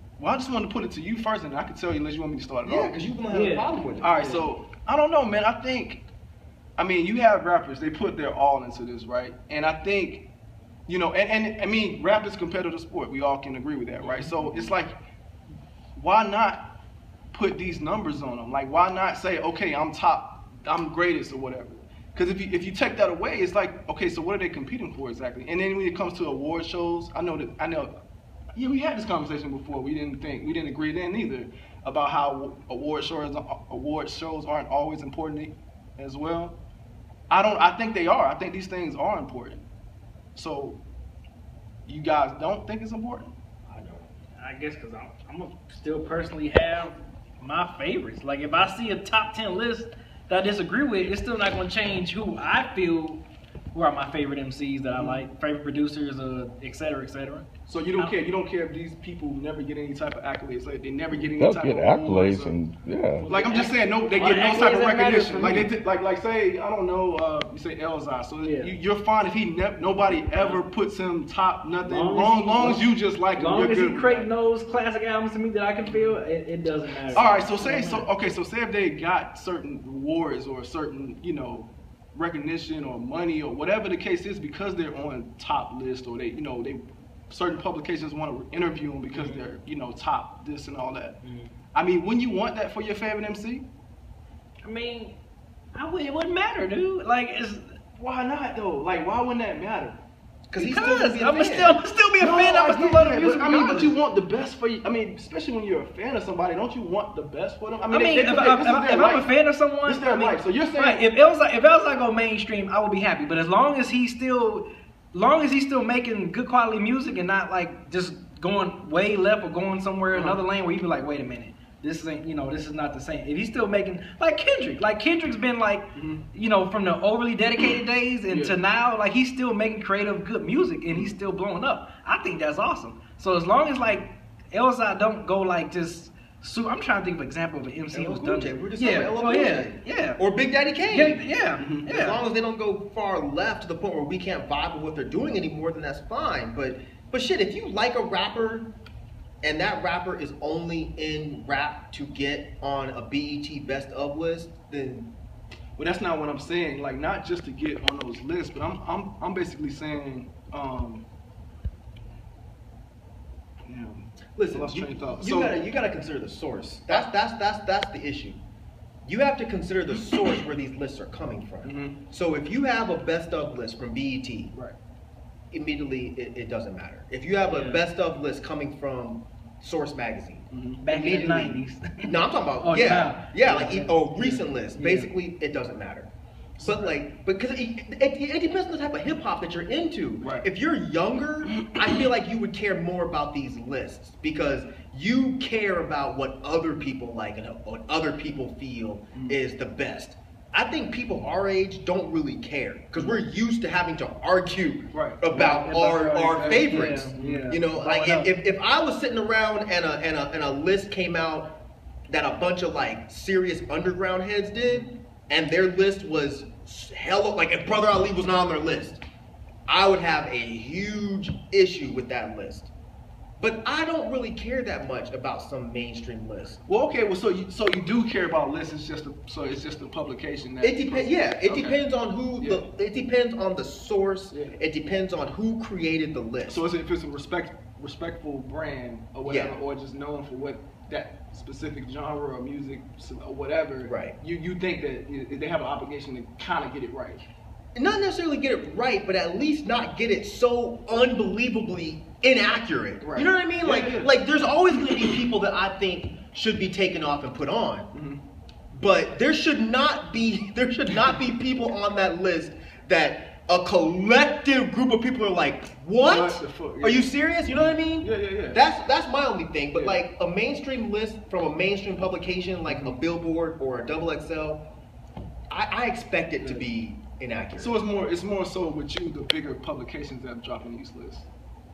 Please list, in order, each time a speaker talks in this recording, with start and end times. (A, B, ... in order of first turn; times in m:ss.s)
0:00.2-0:03.0 A
0:02.6-0:04.5 B
0:03.3-0:03.7 C
0:04.0-0:06.0 A
0:06.8-0:10.3 A
0:10.9-0:14.9 A
0:16.0-0:16.6 A
0:17.3-0:27.9 A
0:28.5-0:36.6 A
0:37.3-0:39.6 A
0:40.3-0:40.8 A
0:41.8-0:43.3 A
0:43.7-0:44.1 B
0:44.4-0:58.2 C
0:55.0-0:55.2 A
0:57.7-1:02.6 A
1:01.2-1:03.3 D
1:03.2-1:05.7 C
1:03.3-1:14.2 A
1:08.4-1:08.7 C
1:10.3-1:10.6 C
1:11.8-1:18.1 C
1:15.9-1:16.1 A
1:17.1-1:31.2 A
1:29.1-1:29.4 C
1:31.2-1:31.5 C
1:31.7-1:33.6 A
1:34.6-1:35.2 C
1:35.7-1:37.6 C
1:38.0-1:40.0 A
1:40.5-1:41.8 B
1:40.6-1:44.0 C
1:42.2-1:49.3 A
1:47.9-2:20.2 C
1:49.8-1:51.0 A
2:00.1-2:00.4 A
2:06.0-2:06.2 A
2:08.3-2:08.5 A
2:17.9-2:28.7 B
2:20.8-2:22.2 C
2:21.6-2:21.8 A
2:29.4-2:35.1 B
2:35.8-2:41.0 A
2:43.7-2:45.6 A
2:44.4-2:48.4 B
2:49.0-2:54.6 B
2:51.6-2:52.0 A
2:55.5-3:31.5 B
2:57.4-2:57.8 C
3:00.5-3:01.3 A
3:00.8-3:04.0 C
3:04.2-3:04.4 A
3:04.7-3:05.1 C
3:06.6-3:07.0 A
3:10.2-3:10.5 A
3:11.5-3:11.8 A
3:24.9-3:25.2 A
3:25.3-3:28.3 C
3:27.2-3:27.4 A
3:32.1-3:39.0 B
3:39.7-3:42.7 B
3:43.4-3:46.6 B
3:46.7-3:51.8 A
3:50.6-3:56.6 B
3:52.4-3:52.6 A
3:56.5-4:07.2 A
3:59.2-3:59.6 B
4:03.8-4:04.2 B
4:07.7-4:17.9 B
4:13.0-4:14.1 A
4:17.9-4:18.2 A
4:18.7-4:34.6 B
4:26.0-4:28.6 A
4:29.7-4:30.0 A
4:32.7-4:33.0 A
4:35.5-4:37.7 B
4:36.4-4:36.7 A
4:37.6-4:41.2 A